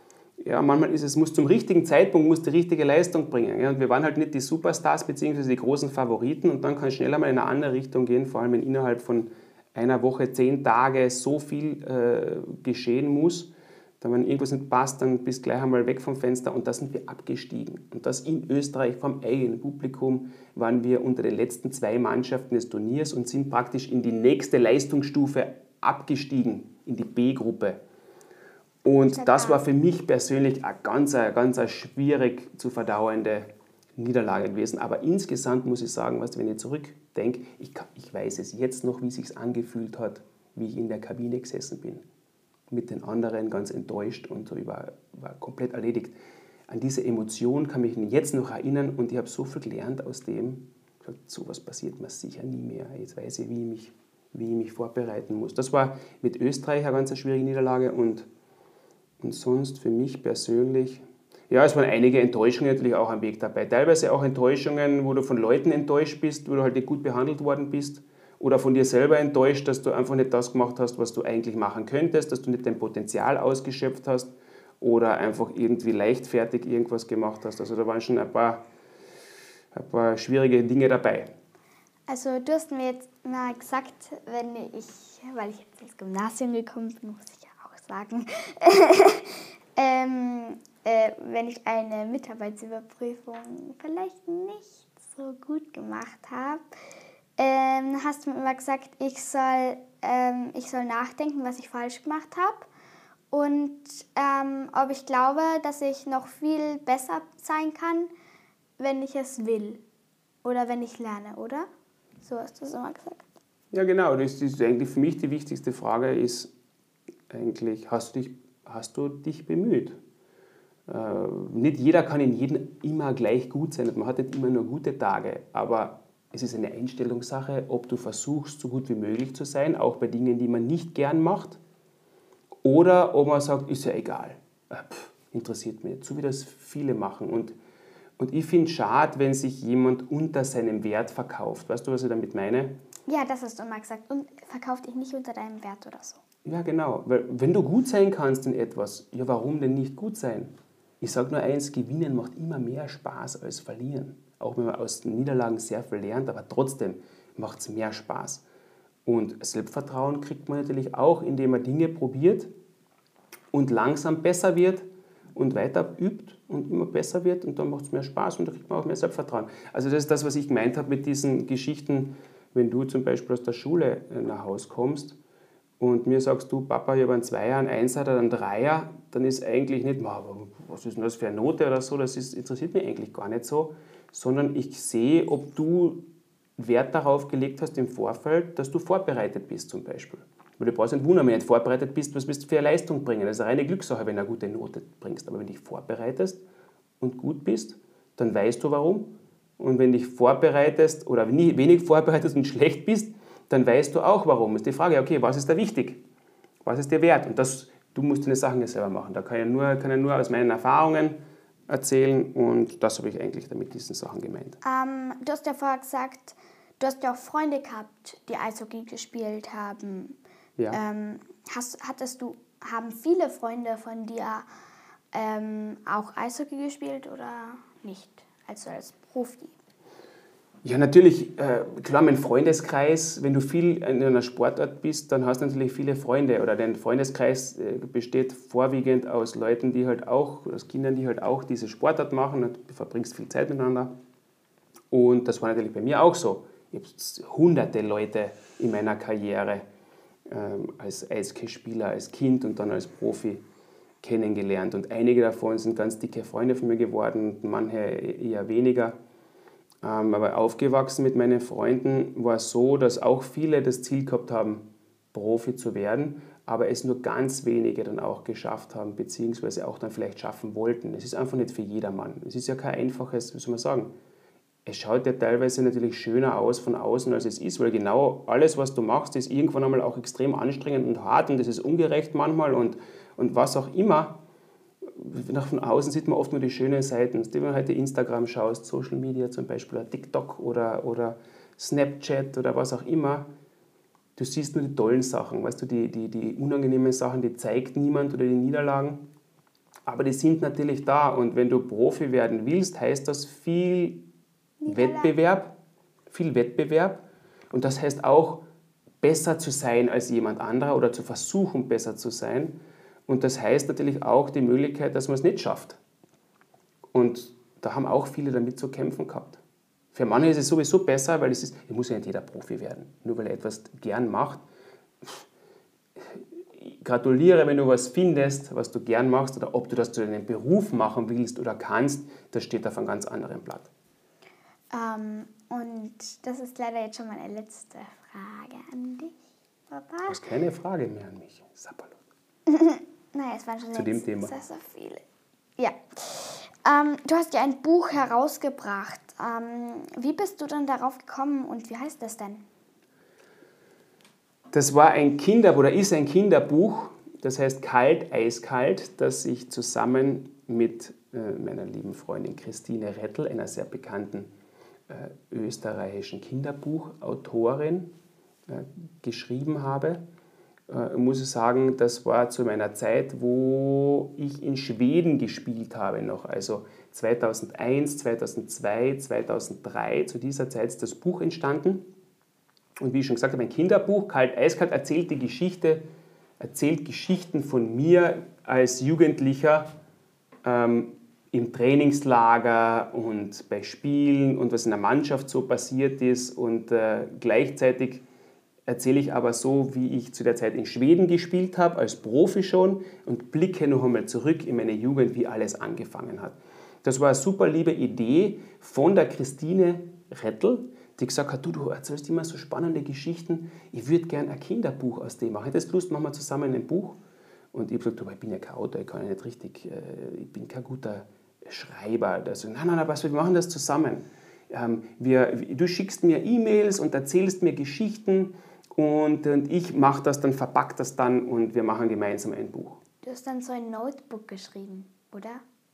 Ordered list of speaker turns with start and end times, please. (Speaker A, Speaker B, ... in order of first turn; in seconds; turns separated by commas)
Speaker A: 0.4-27.8, Speaker A: 28.9-42.0, Speaker B: 29.1-29.6, Speaker A: 42.7-58.3, Speaker A: 59.2-78.6, Speaker A: 79.7-81.3, Speaker B: 82.1-96.7, Speaker B: 97.4-102.7, Speaker B: 103.3-108.1, Speaker B: 108.8-109.8, Speaker B: 110.4-111.7, Speaker B: 112.2-113.2, Speaker A: 113.7-116.5, Speaker A: 117.3-120.0, Speaker A: 120.9-131.6, Speaker A: 132.6-137.6, Speaker A: 138.2-142.8, Speaker B: 143.1-146.2, Speaker A: 146.4-158.4, Speaker A: 159.1-162.5, Speaker A: 163.5-175.2, Speaker A: 175.8-186.0, Speaker A: 186.6-196.4, Speaker A: 197.0-206.0, Speaker A: 206.6-214.6, Speaker B: 214.6-220.2, Speaker B: 220.7-224.4, Speaker B: 225.1-229.5, Speaker A: 230.6-243.9, Speaker A: 244.9-249.7, Speaker A: 250.3-253.4, Speaker A: 254.0-259.0, Speaker A: 259.8-273.9, Speaker A: 274.7-284.2, Speaker A: 284.8-293.3, Speaker A: 294.2-299.0, Speaker A: 299.9-304.0, Speaker B: 304.6-305.1, Speaker A: 304.7-305.6, Speaker A: 306.1-308.4, Speaker A: 309.0-315.8, Speaker A: 316.9-319.4, Speaker A: 319.9-324.4, Speaker A: 326.0-333.7, Speaker B: 334.7-339.2, Speaker B: 339.7-340.2, Speaker A: 340.1-342.0, Speaker B: 342.5-345.0, Speaker A: 343.7-344.3, Speaker B: 345.6-352.4, Speaker A: 354.5-364.3, Speaker A: 364.9-367.9, Speaker A: 368.5-370.0, Speaker A: 370.7-381.9, Speaker A: 382.8-385.9, Speaker A: 386.4-389.7, Speaker A: 390.4-398.1, Speaker A: 398.7-417.0, Speaker A: 417.5-432.8, Speaker B: 433.0-435.4